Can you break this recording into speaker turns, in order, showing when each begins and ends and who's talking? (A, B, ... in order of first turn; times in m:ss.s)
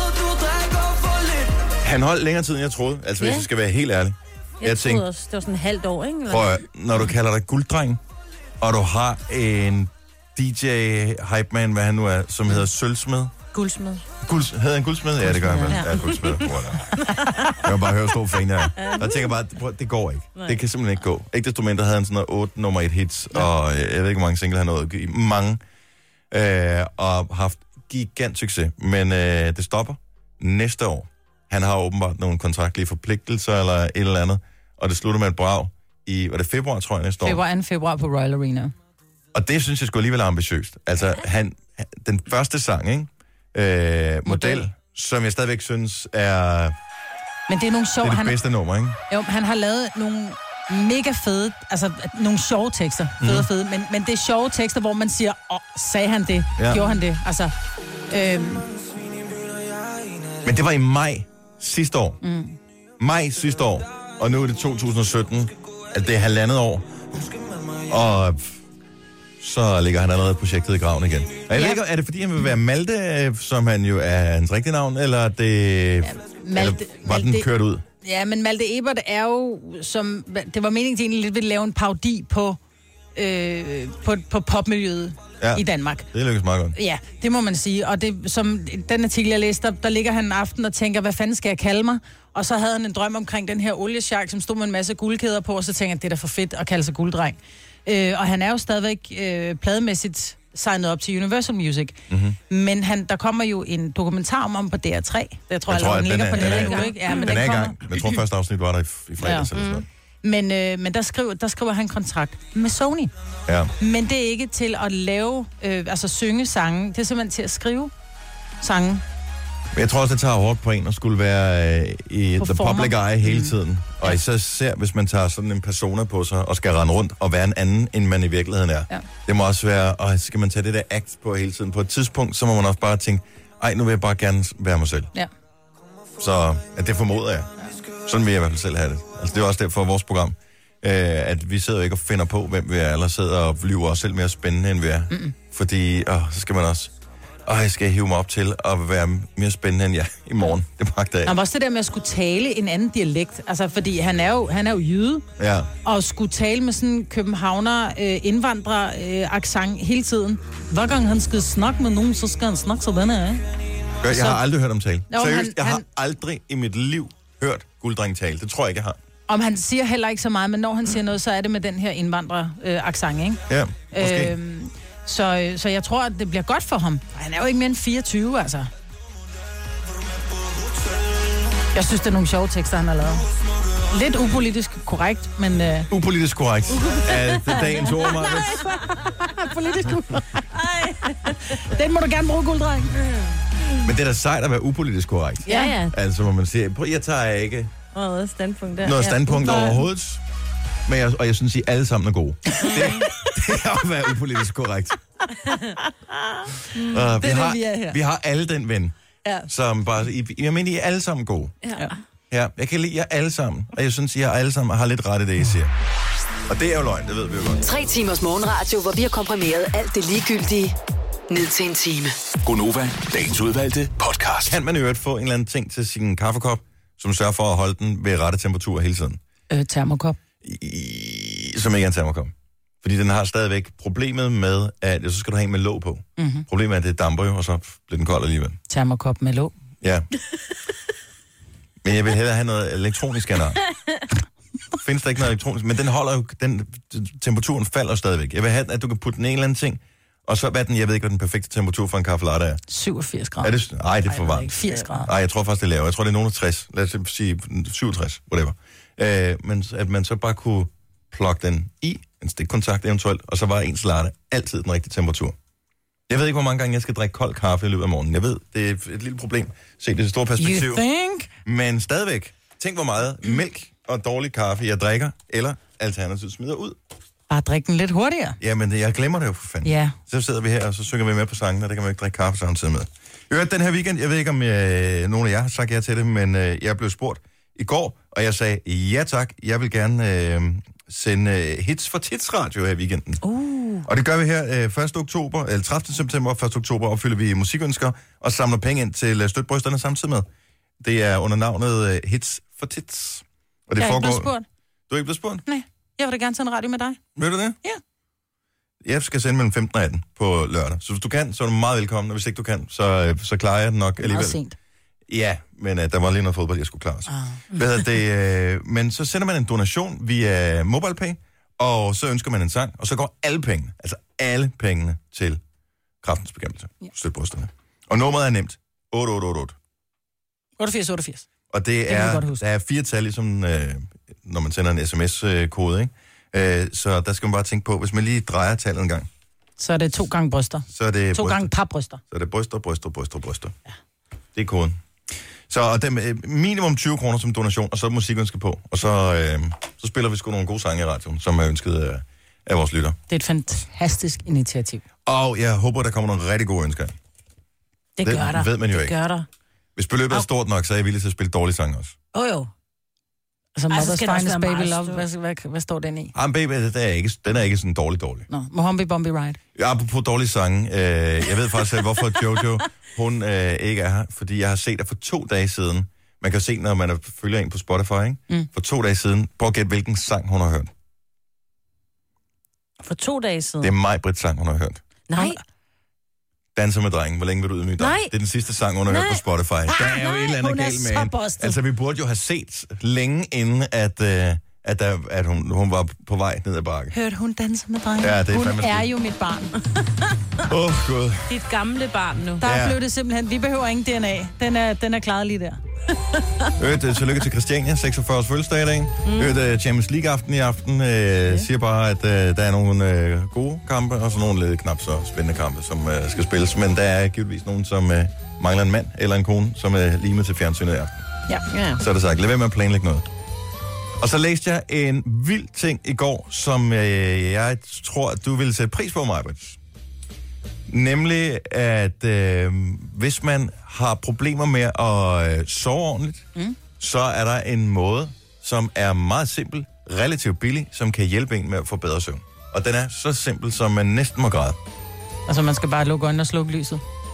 0:01.8-0:05.0 A
0:03.2-0:03.5 B
0:04.6-0:06.6 B
0:06.3-0:08.0 A
0:08.6-0:13.3 A
0:13.5-0:14.0 B
0:14.2-0:17.0 A
0:15.4-0:17.6 B
0:17.5-0:25.6 A
0:18.7-0:19.3 B
0:26.3-0:37.4 A
0:37.2-0:38.7 C
0:39.3-0:46.7 A
0:44.2-0:44.6 C
0:47.5-0:48.4 C
0:48.0-0:49.0 A
0:49.1-0:57.5 C
0:53.2-0:53.5 A
0:56.6-0:56.8 A
0:58.1-0:58.6 C
1:00.4-1:02.2 A
1:02.2-1:02.6 C
1:03.0-1:06.8 A
1:07.8-1:08.6 A
1:09.4-1:17.8 A
1:11.5-1:11.8 C
1:16.0-1:17.5 C
1:18.0-1:22.6 C
1:23.1-1:26.1 C
1:25.4-1:26.8 A
1:26.7-1:47.8 C
1:42.1-1:42.4 A
1:45.7-1:49.8 A
1:46.3-1:47.7 B
1:49.2-1:49.5 C
1:49.5-1:49.8 B
1:50.2-1:53.1 C
1:53.5-1:53.7 A
1:53.8-1:57.9 C
1:58.6-1:59.0 C
1:59.7-2:15.1 A
2:02.4-2:04.2 C
2:16.2-2:17.5 A
2:18.0-2:26.9 A
2:27.4-2:31.4 A
2:31.2-2:35.2 C
2:35.4-2:35.7 A
2:35.8-2:43.4 C
2:44.0-2:49.0 A
2:44.1-2:44.4 C
2:45.1-2:45.8 C
2:49.3-2:53.4 C
2:53.5-2:54.3 A
2:53.9-2:58.7 C
3:01.7-3:03.2 C
3:03.8-3:05.9 C
3:05.9-3:08.6 A
3:06.7-3:08.3 B
3:07.5-3:10.5 C
3:10.5-3:11.6 B
3:11.1-3:13.0 C
3:13.8-3:17.7 A
3:15.4-3:16.0 B
3:17.9-3:19.8 B
3:18.8-3:20.2 A
3:20.8-3:25.0 A
3:22.6-3:23.1 C
3:22.7-3:23.1 B
3:25.4-3:25.8 B
3:26.8-3:28.0 C
3:26.9-3:28.9 A
3:29.5-3:31.5 A
3:31.6-3:32.0 B
3:32.3-3:35.7 A
3:36.5-3:37.6 A
3:37.6-3:40.8 D
3:41.3-3:42.2 D
3:42.4-3:44.6 E
3:44.4-3:49.2 A
3:49.5-3:50.2 C
3:50.4-3:58.6 A
3:56.2-3:56.4 C
3:58.7-3:59.5 C
3:59.8-4:00.1 A
4:01.8-4:03.6 A
4:04.8-4:12.6 A
4:12.7-4:13.5 C
4:13.4-4:25.4 A
4:14.0-4:15.1 C
4:26.1-4:30.8 A
4:30.4-4:31.3 C
4:31.4-4:36.8 A
4:37.3-4:38.4 C
4:38.4-4:53.2 A
4:39.6-4:39.9 C
4:53.2-4:53.8 B
4:53.8-5:00.3 A
5:00.8-5:04.3 A
5:03.8-5:04.4 C
5:04.9-5:05.4 A
5:05.4-5:07.0 C
5:07.2-5:07.6 A
5:08.8-5:14.4 A
5:14.0-5:14.6 C
5:15.1-5:25.4 A
5:17.1-5:17.4 C
5:26.0-5:29.6 A
5:30.6-5:31.2 C
5:31.5-5:39.1 A
5:31.9-5:32.4 C
5:39.6-5:42.0 C
5:40.7-5:41.5 A
5:42.1-5:43.5 A
5:44.3-5:53.0 A
5:53.1-5:54.8 C
5:55.0-5:56.9 A
5:58.0-5:59.3 B
5:58.0-5:58.9 A
5:59.8-6:02.0 A
6:02.1-6:02.5 B
6:03.6-6:06.1 C
6:03.7-6:05.0 B
6:06.1-6:08.2 A
6:08.3-6:09.4 C
6:09.5-6:20.7 A
6:22.8-6:23.7 B
6:23.6-6:24.8 A
6:25.1-6:25.4 B
6:26.5-6:36.9 A
6:27.8-6:28.1 B
6:28.9-6:29.2 B
6:29.7-6:31.6 C
6:36.9-6:39.5 C
6:38.0-6:38.9 A
6:40.4-6:41.3 A
6:41.3-6:42.4 B
6:42.4-6:45.6 C
6:42.4-6:42.8 A
6:46.2-6:46.5 B
6:46.6-7:01.0 A
6:49.0-6:49.4 B
7:01.5-7:01.8 B
7:01.8-7:03.1 A
7:04.0-7:09.6 A
7:10.7-7:16.2 A
7:16.8-7:24.6 A
7:25.3-7:26.8 C